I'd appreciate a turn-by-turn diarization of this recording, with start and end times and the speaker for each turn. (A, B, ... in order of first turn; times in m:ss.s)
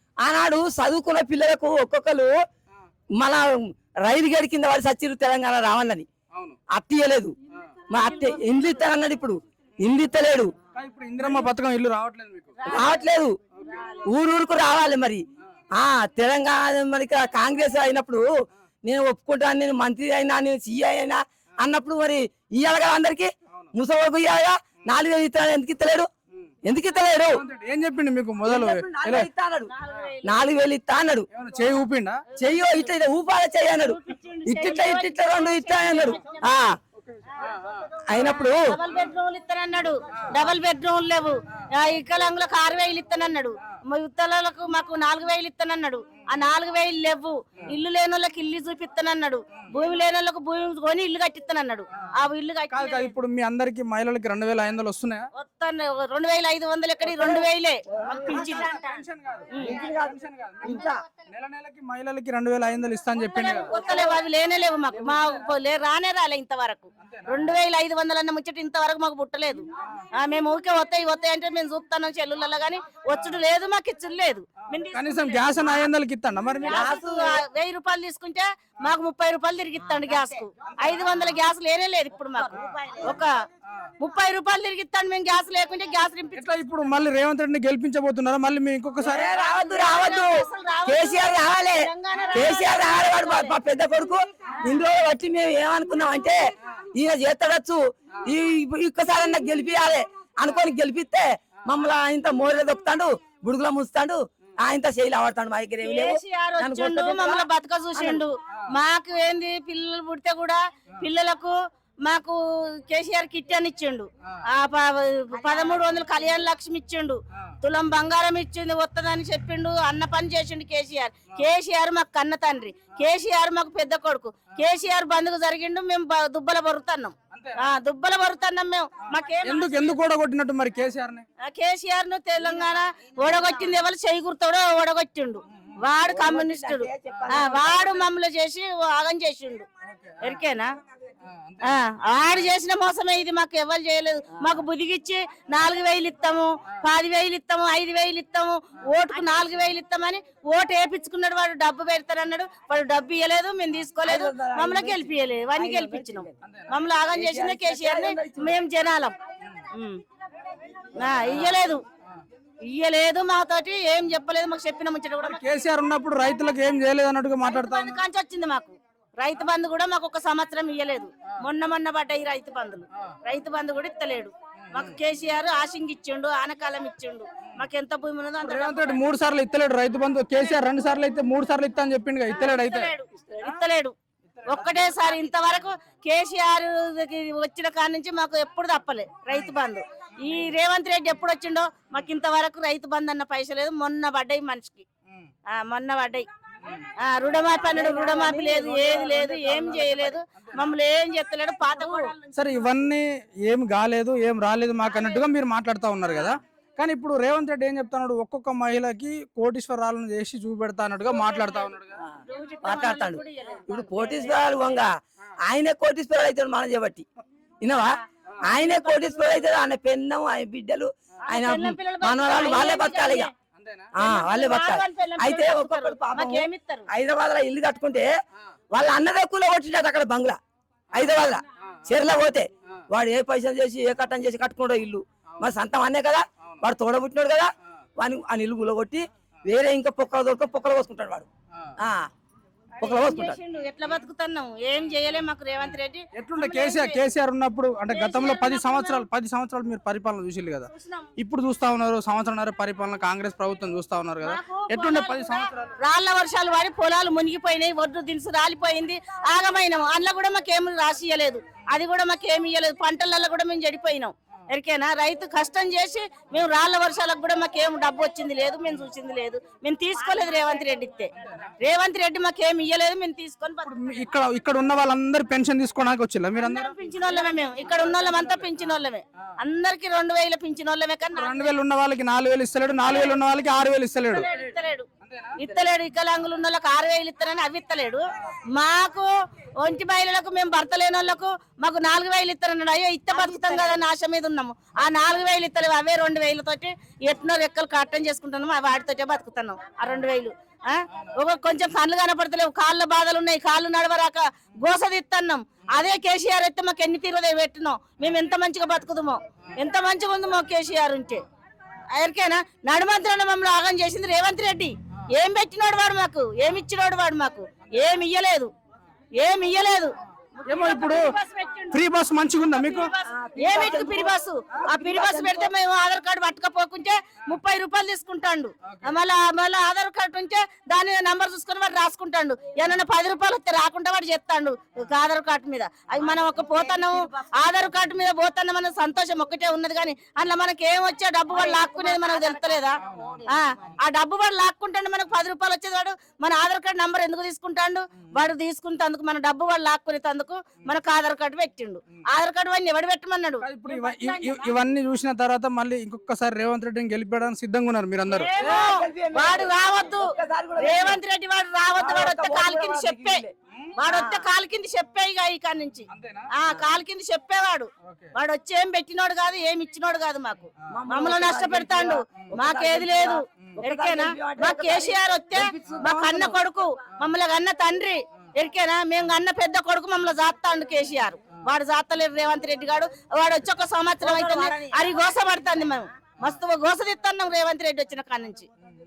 0:00.2-0:02.3 A
0:03.2-0:06.1 A
0:06.7-0:07.4 A
0:07.5-0:07.8 B
0:07.9-0:10.5 A
0:08.1-0:08.4 C
0:10.7-0:12.7 B
0:12.6-0:13.0 C
0:12.7-0:13.4 A
0:13.6-0:14.1 C
0:14.0-0:18.3 A
0:18.8-0:26.1 A
0:26.7-0:27.4 A
0:27.1-0:29.3 B
0:28.4-0:29.7 A
0:29.7-0:30.4 C
0:30.2-0:31.3 A
0:31.3-0:32.3 B
0:32.3-0:32.9 C
0:32.4-0:36.8 A
0:33.7-0:36.5 C
0:37.1-0:38.0 B
0:38.1-0:38.8 A
0:38.2-0:53.2 C
0:52.7-0:55.3 B
0:55.3-0:59.9 C
0:57.2-0:58.4 A
0:58.2-1:03.7 B
0:59.6-1:01.0 A
1:03.3-1:15.9 C
1:07.0-1:07.4 B
1:14.9-1:16.9 B
1:16.6-1:23.3 C
1:16.7-1:17.4 A
1:24.0-1:26.5 C
1:26.3-1:29.3 B
1:29.0-1:48.2 A
1:29.2-1:33.6 C
1:45.8-2:10.0 C
2:07.3-2:07.6 B
2:09.4-2:11.3 B
2:11.4-2:19.7 C
2:16.0-2:18.0 A
2:19.9-2:20.4 B
2:20.2-2:20.7 C
2:21.2-2:21.8 B
2:21.6-2:39.2 C
2:34.0-2:36.3 A
2:36.4-2:36.7 B
2:37.1-2:38.5 A
2:39.7-2:40.0 C
2:40.9-2:41.8 C
2:41.0-2:41.5 A
2:42.6-2:45.4 C
2:45.2-2:48.0 B
2:47.4-2:59.0 C
2:58.4-3:02.9 B
3:02.3-3:14.8 C
3:15.5-3:16.3 C
3:16.6-3:16.9 B
3:17.0-3:22.1 C
3:17.7-3:20.2 A
3:22.3-3:32.0 B
3:24.9-3:25.2 C
3:31.1-3:34.6 C
3:32.6-3:37.1 A
3:37.6-3:43.3 A
3:38.5-3:39.5 C
3:41.3-3:43.3 C
3:43.6-3:43.9 B
3:43.9-3:48.1 A
3:44.0-3:46.9 C
3:48.7-3:50.4 A
3:50.9-4:01.3 A
4:01.8-4:02.0 A
4:02.8-4:07.1 C
4:02.8-4:03.4 A
4:06.1-4:15.7 B
4:07.9-4:09.1 C
4:10.7-4:11.1 C
4:14.2-4:34.1 C
4:31.2-4:31.5 B
4:33.6-4:37.3 B
4:36.4-4:41.5 C
4:37.9-4:38.4 B
4:41.1-4:44.3 B
4:42.8-4:43.2 C
4:44.1-5:11.2 C
4:45.0-4:45.4 B
4:53.1-4:53.8 A
5:11.9-5:18.5 C
5:19.2-5:21.8 C
5:20.5-5:21.1 B
5:21.7-5:22.9 B
5:22.4-5:54.6 C
5:23.0-5:25.5 A
5:42.8-5:43.2 B
5:53.4-5:58.3 B
5:58.1-6:03.3 C
5:58.4-6:01.0 A
6:01.8-6:03.3 A
6:03.8-6:28.5 C
6:03.9-6:04.2 A
6:05.9-6:06.6 B
6:07.8-6:08.1 B
6:10.7-6:16.4 A
6:24.0-6:24.8 A